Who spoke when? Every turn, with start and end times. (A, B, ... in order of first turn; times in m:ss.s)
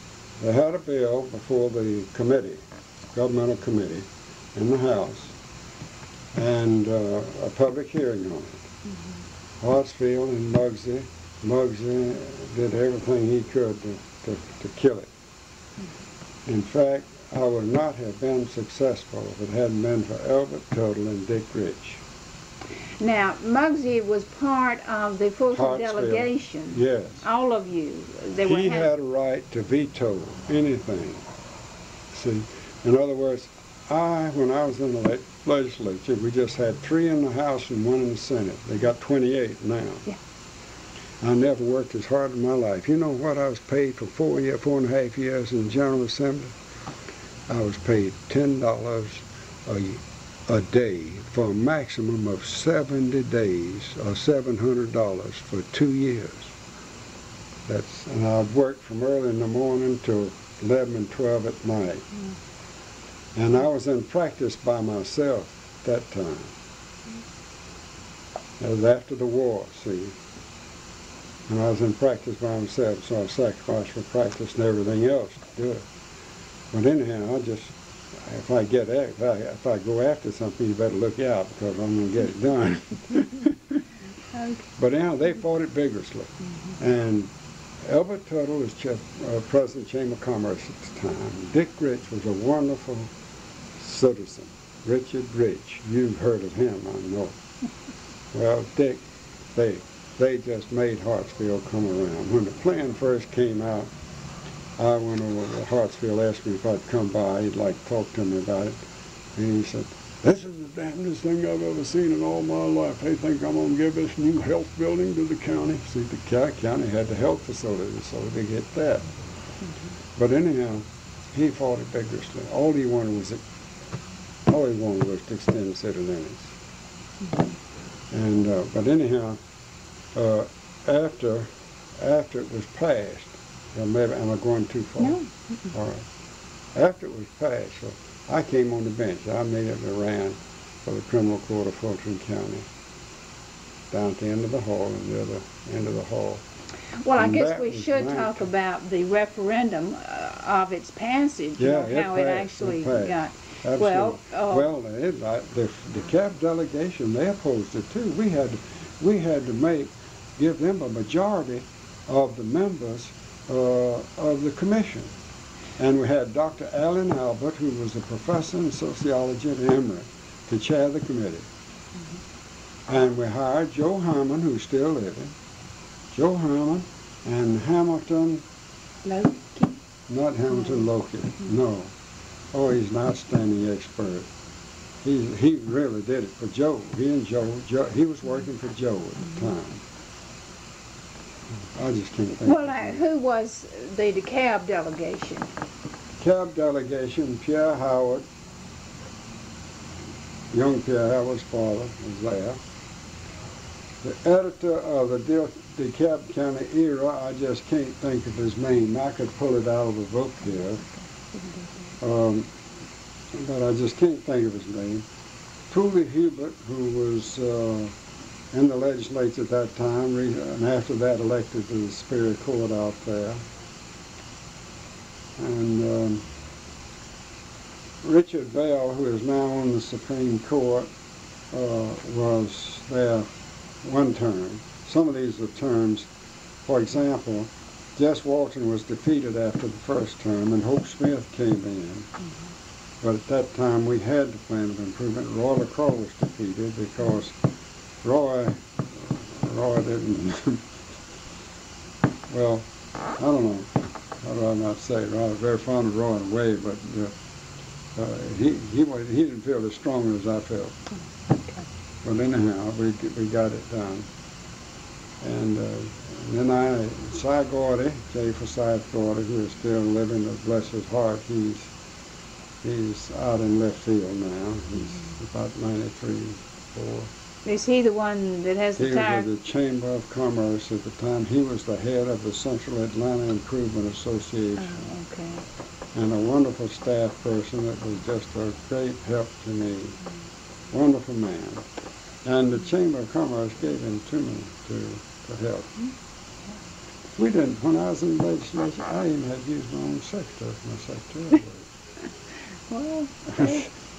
0:00.4-0:05.3 A
0:06.3-0:08.6 A
0:09.6-0:15.1 A
0:16.4-0:22.0 A
0:23.0-0:28.9 B
0:25.5-0:27.2 A
0:28.4-0:31.2 A
0:32.1-0:40.0 A
0:41.2-0:46.5 A
0:47.5-0:56.5 A
0:57.7-1:02.1 A
1:03.3-1:06.5 A
1:08.6-1:10.2 A
1:11.5-1:15.8 A
1:16.7-1:23.8 A
1:24.3-1:24.6 B
1:24.8-1:27.3 A
1:27.8-1:33.1 A
1:33.8-1:37.4 A
1:38.3-1:39.0 A
1:39.5-1:43.9 A
1:44.8-1:48.8 A
1:49.3-1:59.1 A
2:00.2-2:03.4 A
2:04.5-2:06.6 A
2:08.1-2:09.4 A
2:10.1-2:15.2 A
2:15.0-2:15.3 B
2:15.7-2:16.0 A
2:16.7-2:22.7 A
2:23.9-2:26.4 A
2:27.0-2:34.7 B
2:27.2-2:28.5 A
2:31.6-2:45.1 A
2:45.8-2:51.5 A
2:52.9-2:55.3 A
2:56.1-2:58.4 A
2:59.0-2:59.8 B
3:00.1-3:01.9 A
3:02.5-3:04.3 A
3:05.0-3:09.8 A
3:11.7-3:13.0 A
3:12.4-3:15.5 B
3:16.2-3:18.2 A
3:20.5-3:22.6 A
3:24.0-3:30.8 A
3:31.3-3:31.7 B
3:32.0-3:32.5 A
3:33.3-3:35.0 A
3:35.7-3:37.9 A
3:38.5-3:43.4 A
3:45.4-3:46.2 A
3:48.0-3:50.9 A
3:51.5-3:53.3 A
3:53.8-3:56.1 A
3:56.6-4:02.1 A
4:03.0-4:07.4 A
4:08.0-4:10.6 A
4:12.3-4:17.1 A
4:18.0-4:20.8 A
4:22.0-4:24.1 A
4:25.2-4:31.7 A
4:32.6-4:37.1 A
4:37.4-4:39.3 B
4:38.8-4:44.8 A
4:44.6-4:45.4 B
4:45.9-4:50.0 A
4:50.7-4:51.7 A
4:52.2-4:55.7 A
4:57.2-5:01.7 A
5:02.7-5:03.6 B
5:03.3-5:03.7 A